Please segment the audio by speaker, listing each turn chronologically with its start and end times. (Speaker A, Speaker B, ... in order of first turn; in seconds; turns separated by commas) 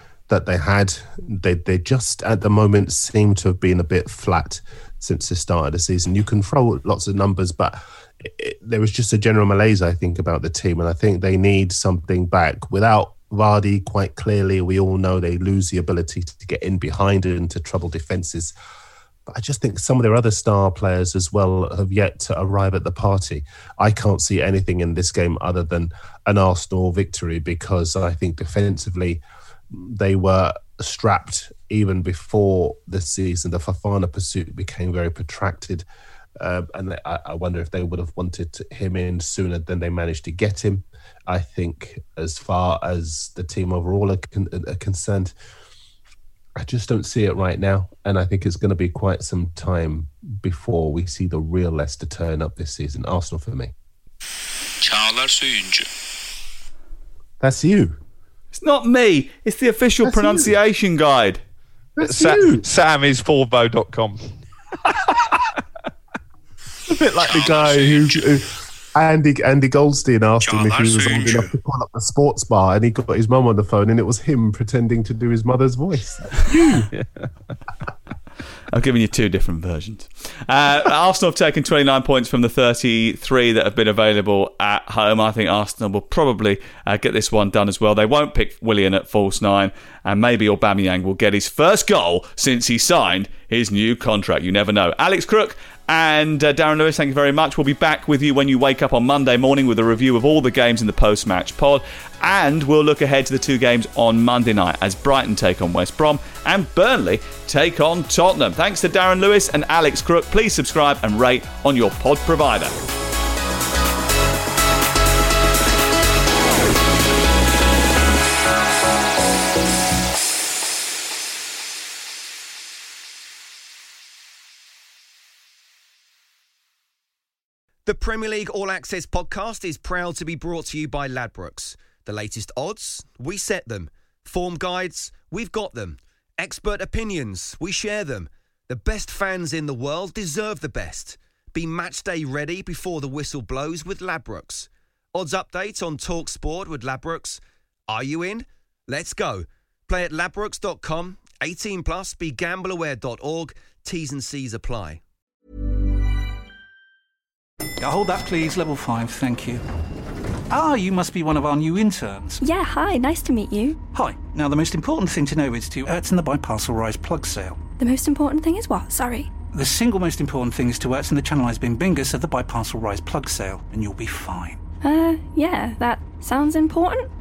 Speaker A: 0.3-18.5, Speaker A: 19.3-35.8, Speaker A: 36.4-45.3, Speaker A: 46.6-53.7, Speaker A: 57.4-58.0, Speaker B: 58.5-61.4, Speaker A: 60.0-60.5, Speaker A: 62.0-62.7, Speaker C: 62.0-64.3, Speaker A: 66.9-76.9, Speaker B: 78.7-112.7, Speaker D: 127.8-155.0, Speaker E: 157.8-159.6, Speaker E: 160.5-162.4, Speaker F: 162.4-163.8, Speaker E: 163.9-167.7, Speaker F: 167.8-169.3, Speaker E: 169.5-174.6, Speaker F: 174.8-177.1